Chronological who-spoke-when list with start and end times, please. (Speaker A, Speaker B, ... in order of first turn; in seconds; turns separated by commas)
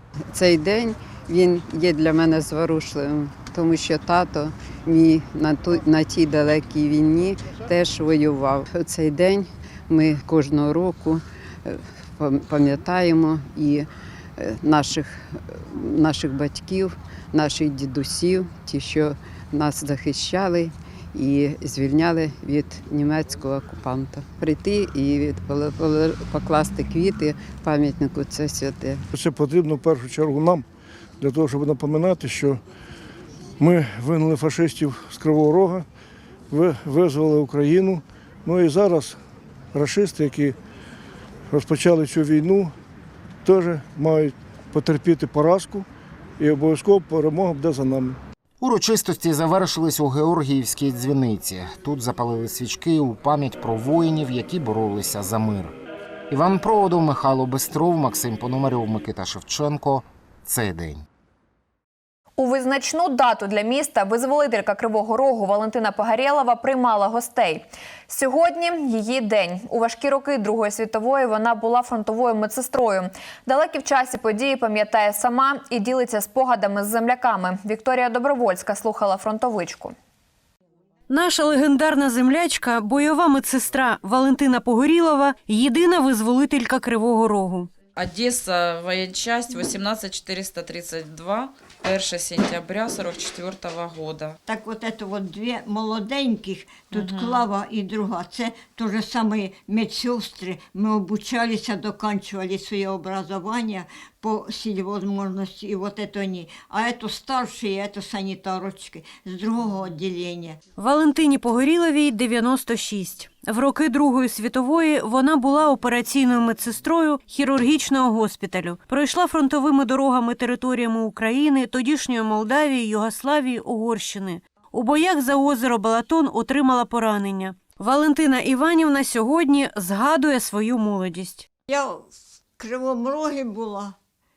Speaker A: 0.3-13.9, Speaker A: 14.4-29.0, Speaker B: 29.1-30.6, Speaker B: 31.2-32.6, Speaker B: 33.6-35.9, Speaker B: 36.5-39.2, Speaker B: 39.7-40.5, Speaker B: 41.5-42.7, Speaker B: 43.4-45.9, Speaker B: 46.4-48.2, Speaker C: 48.6-55.7, Speaker C: 56.3-61.0, Speaker D: 62.4-79.9, Speaker E: 81.1-87.7, Speaker F: 87.9-94.3, Speaker G: 94.5-110.6, Speaker F: 96.9-97.4, Speaker E: 110.8-131.4, Speaker G: 131.7-133.9